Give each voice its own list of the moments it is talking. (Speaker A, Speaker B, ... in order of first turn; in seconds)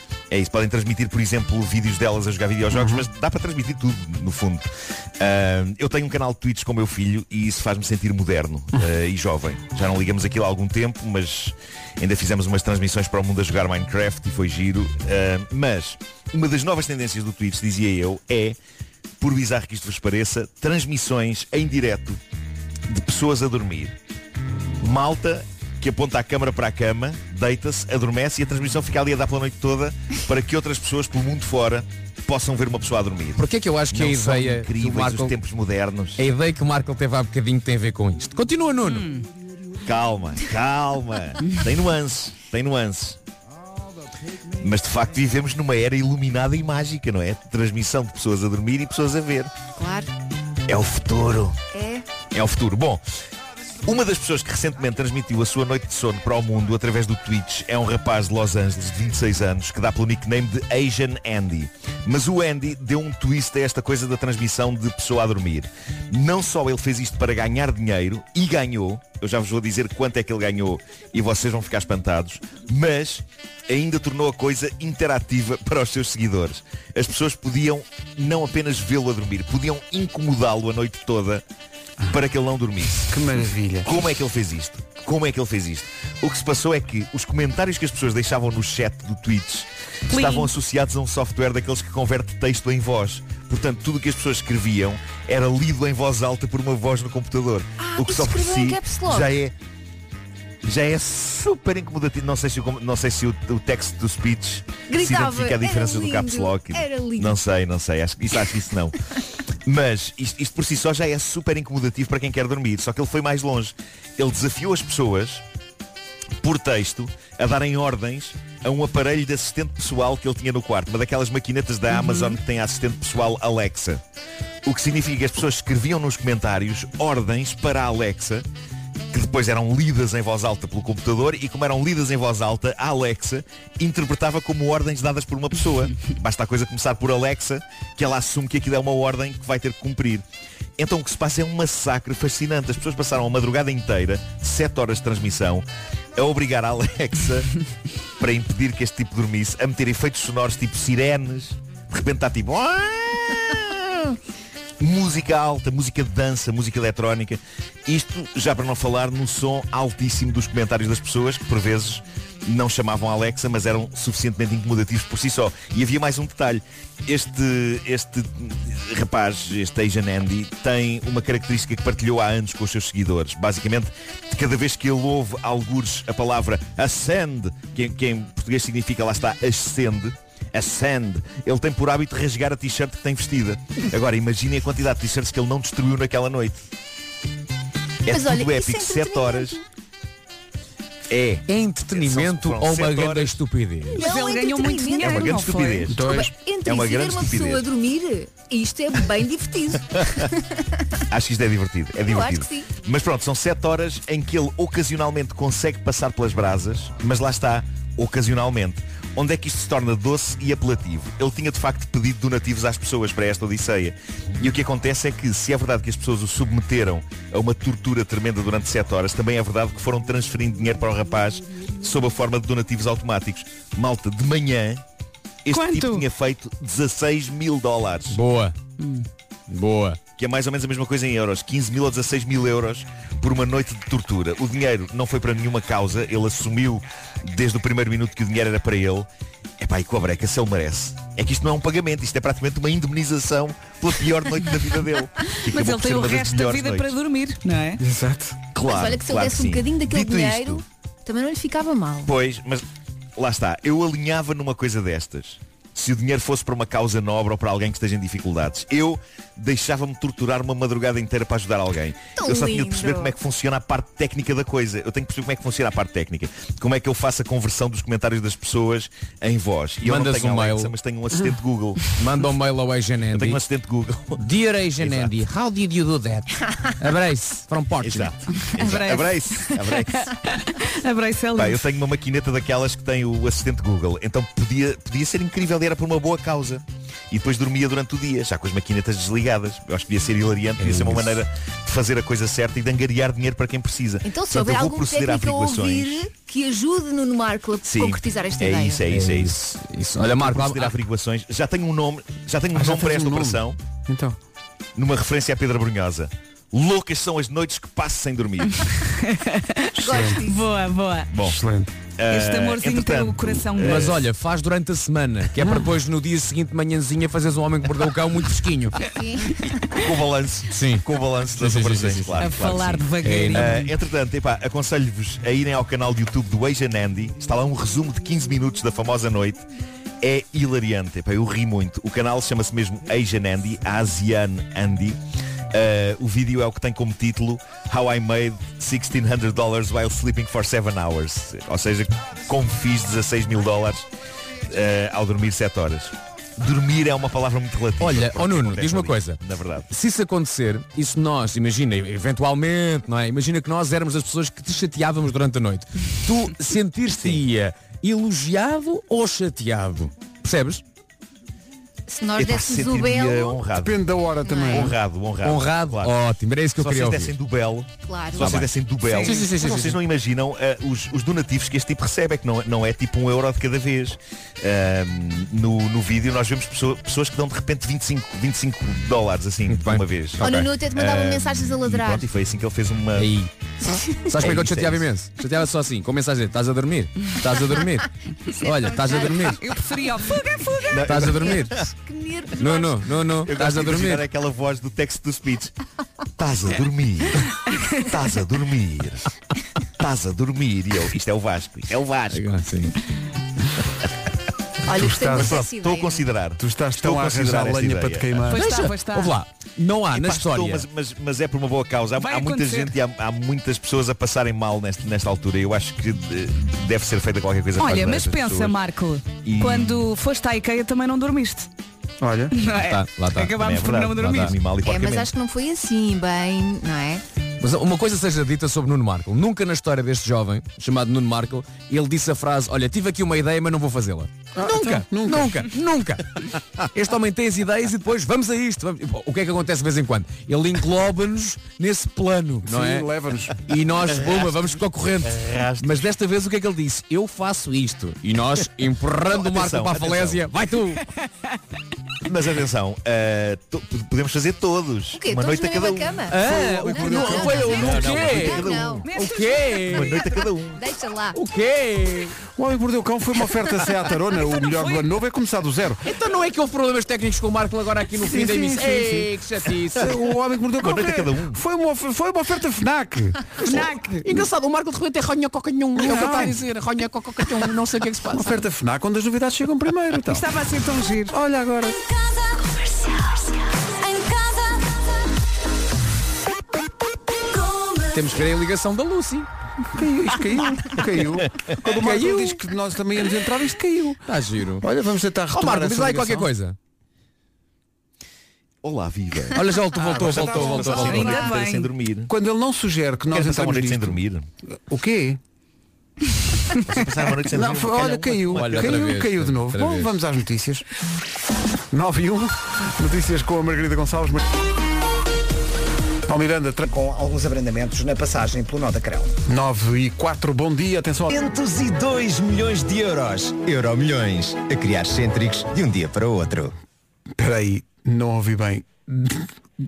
Speaker A: 0.3-18.6, 19.2-22.2, 22.9-23.9, 24.8-36.2, 39.8-43.2, 44.6-49.5, 50.7-51.6, 52.2-53.0, 53.8-81.4, 82.1-83.2, 83.8-99.5, 100.6-109.0, 109.7-115.4, 116.4-124.0, 124.6-128.4, 129.1-140.2, 140.8-147.5, 148.2-154.1, 154.8-186.6, 188.1-189.6, 191.1-193.4, 195.0-197.7, 201.1-224.8, 225.4-228.2, 230.2-239.1, 239.6-246.9, 248.5-250.6, 252.0-252.6, 253.2-271.9, 273.1-274.2, 274.8-275.1, 277.8-280.1, 281.4-296.0, 297.6-299.4, 300.1-303.6, 304.8-308.7, 311.1-311.4, 312.0-314.1, 319.7-329.4, 330.0-335.0, 335.5-343.9, 344.5-349.7, 356.9-357.2, 362.1-363.9, 364.5-366.0, 366.6-383.1, 384.2-384.9, 390.7-391.7, 393.2-395.5, 396.2-397.3, 397.8-399.1, 399.8-402.2, 405.1-408.3, 409.9-418.6, 419.2-419.9, 423.4-425.1, 443.9-445.8, 449.0-450.3, 452.0-456.1, 457.3-458.9, 459.6-460.6, 470.6-471.4, 498.6-502.1, 503.1-504.3, 506.6-508.9
Speaker B: 2.7-3.0, 83.1-83.9, 195.9-196.3, 247.8-248.4, 302.5-304.2, 309.7-310.2, 311.2-311.7, 315.4-315.6, 363.5-364.7, 404.7-405.4, 406.4-408.4, 422.0-422.3, 434.3-435.4, 442.4-443.4, 456.1-457.7, 462.3-465.8, 468.0-469.1, 469.7-473.3, 475.8-476.4, 478.1-480.2, 481.1-481.8, 489.7-494.0, 494.6-496.3, 499.7-501.3, 502.1-504.0, 504.6-505.2, 507.3-510.6, 511.7-514.2, 516.1-516.6, 519.3-521.1, 527.2-529.3
Speaker C: 33.4-35.4, 36.2-39.1, 191.5-194.0, 228.1-228.6, 229.5-230.0, 269.8-270.7, 271.9-273.4, 274.2-278.1, 290.6-291.2, 298.9-300.8, 313.6-318.8, 320.5-323.7, 347.8-360.6, 365.2-367.1, 368.2-369.8, 379.5-380.5, 382.9-389.4, 390.9-391.7, 392.4-394.0, 402.1-402.8, 408.3-410.6, 422.4-424.3, 427.4-442.9, 443.4-450.8, 456.1-460.0, 461.1-462.2, 465.8-469.9, 473.4-478.4, 487.9-489.3, 491.6-492.4, 494.1-494.6, 495.3-496.6, 499.3-501.3, 508.3-509.9
Speaker D: 38.8-39.2, 90.1-90.5, 121.9-122.3, 193.9-195.9, 225.5-226.1, 228.8-229.1, 245.4-247.8, 278.4-281.6, 308.7-311.1, 312.1-314.0, 322.2-323.6, 368.8-369.3, 389.0-391.3, 408.3-409.2, 412.0-412.7, 417.6-421.5, 422.3-424.3, 458.8-459.9, 464.3-464.9, 473.4-474.2, 480.1-481.1, 500.6-501.7
Speaker E: 49.8-50.1, 51.7-52.0, 97.8-99.3, 104.9-107.4, 188.1-189.6, 193.9-200.6, 202.1-202.7, 248.7-252.1, 262.1-263.1, 294.0-298.8, 309.8-310.4, 318.8-319.3, 361.9-363.4, 364.2-364.7, 367.9-368.3, 380.2-382.1, 388.4-389.4, 391.8-392.8, 404.6-406.1, 424.6-427.0, 454.9-458.9, 460.5-461.2
Speaker F: 516.6-519.1
Speaker G: 521.1-526.5